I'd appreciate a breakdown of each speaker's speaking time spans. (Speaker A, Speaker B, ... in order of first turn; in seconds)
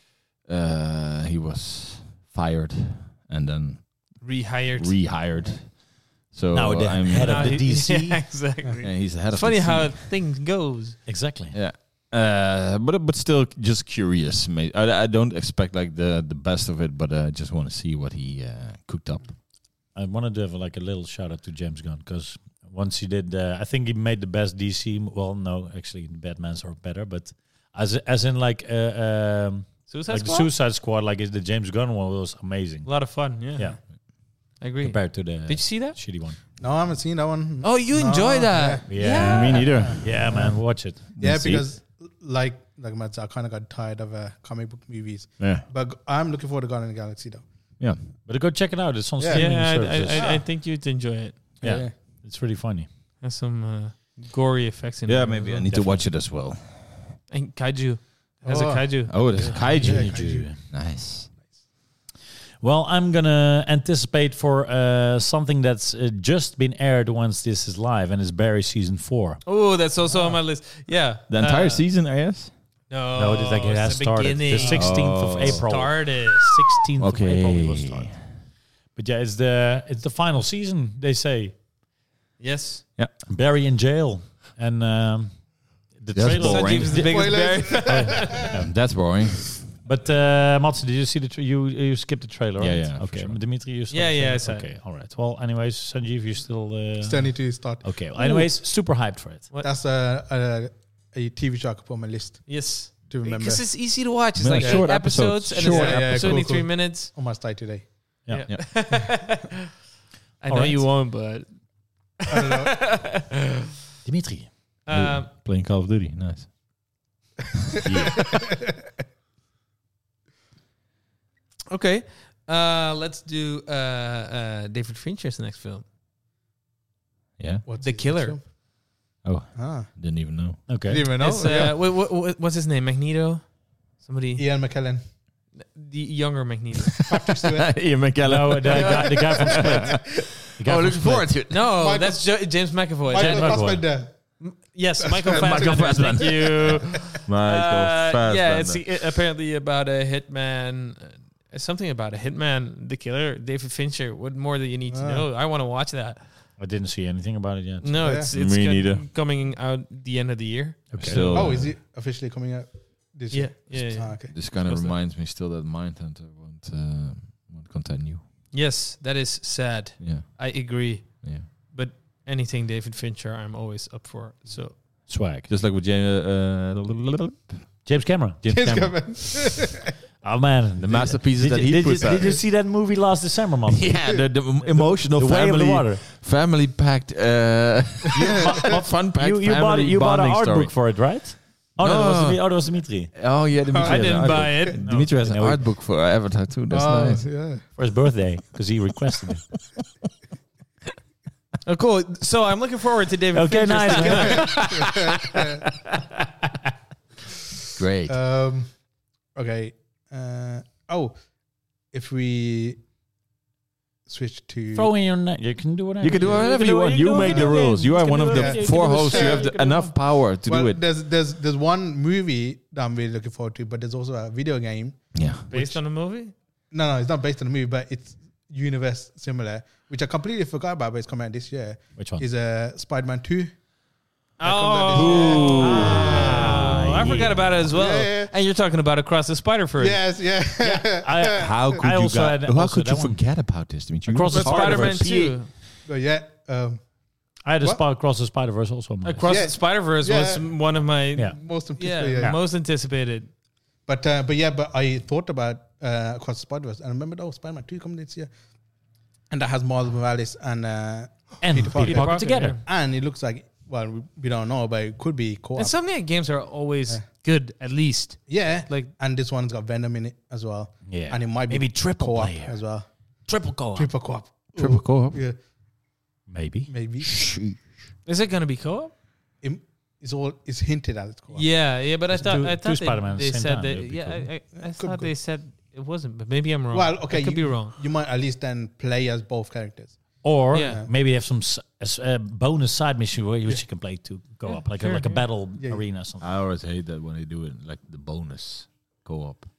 Speaker A: 0.5-7.7, 8.8-10.1, 11.5-19.3, 39.1-40.3, 41.1-41.6, 45.4-45.6, 55.0-57.0, 59.1-61.3, 71.3-72.5, 74.6-75.7, 77.0-78.2, 86.1-87.1, 88.5-89.7, 92.6-93.4, 98.2-98.5, 104.4-106.4, 114.9-116.5, 127.4-127.6, 129.2-130.7, 137.5-141.6, 145.3-148.8, 158.3-159.1, 160.9-161.7, 164.3-168.2, 170.0-171.5, 175.5-177.8, 178.6-178.9, 180.8-182.4, 183.7-191.0, 191.8-197.2, 207.7-208.2, 216.0-220.8, 225.1-225.4, 234.9-236.2, 241.4-245.3, 274.6-275.2, 296.2-299.5
Speaker B: 4.2-5.1, 7.1-11.0, 29.9-30.5, 32.8-33.9, 34.6-36.0, 37.6-39.9, 49.3-51.5, 53.2-55.7, 57.3-59.7, 69.4-71.8, 72.9-76.6, 82.4-82.8, 86.3-88.5, 93.9-94.7, 102.5-107.1, 108.3-109.6, 110.4-113.4, 114.8-115.3, 121.7-125.8, 127.8-128.4, 131.2-134.4, 135.5-137.0, 141.5-143.8, 144.4-156.3, 157.8-161.2, 163.3-165.0, 168.5-174.8, 193.8-194.9, 201.6-205.1, 225.5-226.3, 234.4-240.0, 244.3-245.5, 249.0-253.3, 261.8-262.6, 265.6-268.9, 278.1-278.9, 281.3-287.8, 290.5-290.8, 294.4-295.3
Speaker C: 6.5-8.3, 11.1-11.6, 19.9-34.3, 34.8-36.4, 38.9-41.0, 48.2-50.3, 51.6-52.9, 55.7-56.1, 59.4-60.6, 62.6-69.4, 73.1-78.3, 78.9-81.5, 83.2-88.7, 89.8-99.5, 108.2-108.5, 110.5-110.9, 114.0-114.5, 117.8-118.1, 130.7-131.1, 138.2-141.3, 143.1-143.8, 156.6-157.9, 160.9-161.4, 175.1-175.5, 177.8-179.2, 180.2-184.1, 184.7-186.0, 188.1-193.1, 194.8-195.7, 197.7-199.4, 203.3-204.7, 214.7-219.9, 232.0-232.2, 235.6-237.6, 240.6-245.3, 247.4-249.3, 261.4-262.6, 270.9-272.6, 273.3-273.9, 276.3-277.5, 282.1-284.3, 290.2-296.2
Speaker D: 36.6-47.4, 49.2-50.4, 51.6-51.9, 58.4-60.5, 70.0-70.4, 87.0-88.3, 97.0-98.0, 99.6-103.7, 104.6-104.9, 105.5-108.2, 112.3-112.8, 127.6-128.4, 129.5-129.9, 130.6-131.8, 134.4-135.0, 137.0-137.8, 138.8-139.9, 141.5-142.4, 143.0-144.4, 145.0-146.5, 154.9-155.3, 158.0-158.3, 161.3-164.3, 178.4-179.9, 193.6-194.7, 196.7-197.6, 203.9-205.6, 208.1-208.8, 209.3-211.1, 211.9-212.8, 214.1-214.9, 217.1-219.5, 220.4-225.8, 226.7-233.5, 234.4-236.7, 237.7-238.3, 239.8-241.6, 245.8-246.9, 249.2-250.6, 251.3-252.4, 253.8-258.3, 259.3-265.8, 268.3-272.9, 273.5-275.4, 276.7-277.3, 279.4-281.5, 284.6-285.1, 286.7-290.9, 295.6-295.8